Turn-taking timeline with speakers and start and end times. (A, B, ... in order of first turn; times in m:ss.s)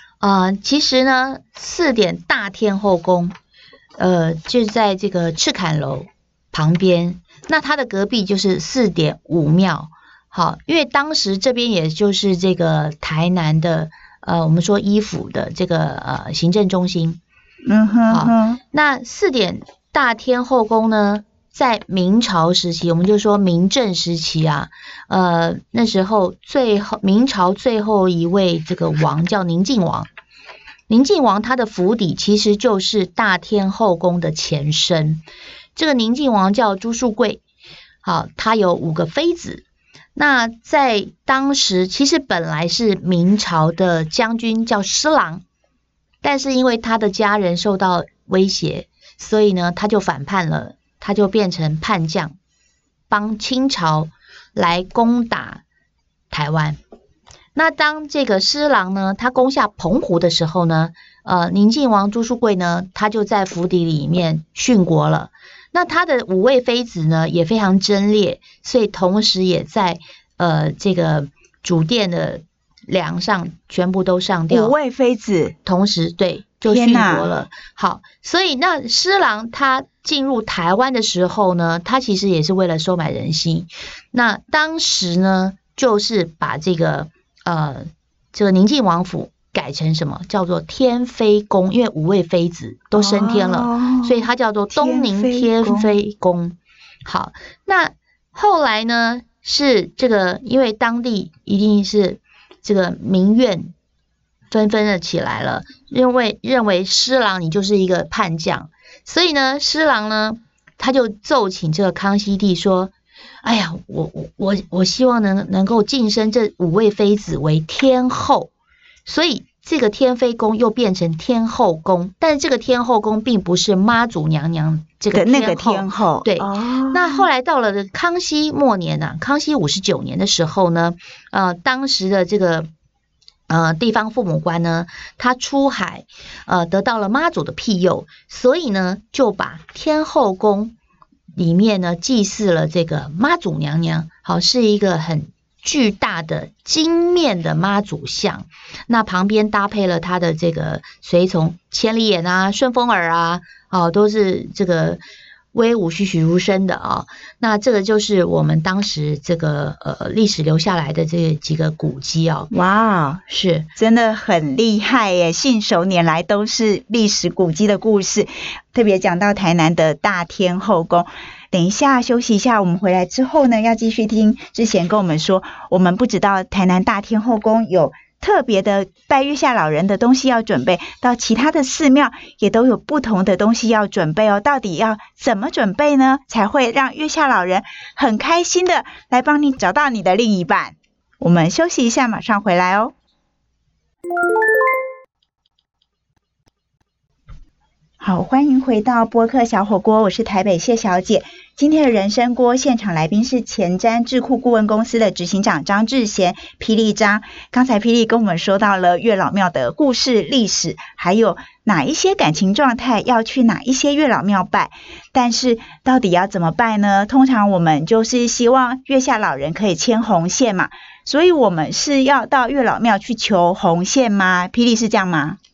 0:00.2-0:03.3 A
0:04.0-0:17.2 A
0:17.7-0:18.6 B
0:18.1-0:30.1 A
0:30.9-0:35.2 A
0:35.7-0:37.4 A
0:38.0-0:45.4 A
0:46.2-0:52.3 A
0:53.1-0:55.6 A
0:56.3-0:56.8 A
0:57.5-1:14.7 A
1:14.5-1:15.5 B
1:15.6-1:43.7 A
1:16.7-1:17.3 B
1:32.9-1:36.0 B
1:44.5-1:58.5 A
1:59.0-2:12.7 A
2:05.1-2:07.3 B
2:13.5-2:20.7 A
2:21.4-2:35.0 A
2:35.5-2:42.5 A
2:42.5-2:43.2 B
2:43.3-2:43.7 A
2:43.8-3:12.9 B
3:18.0-3:45.4 B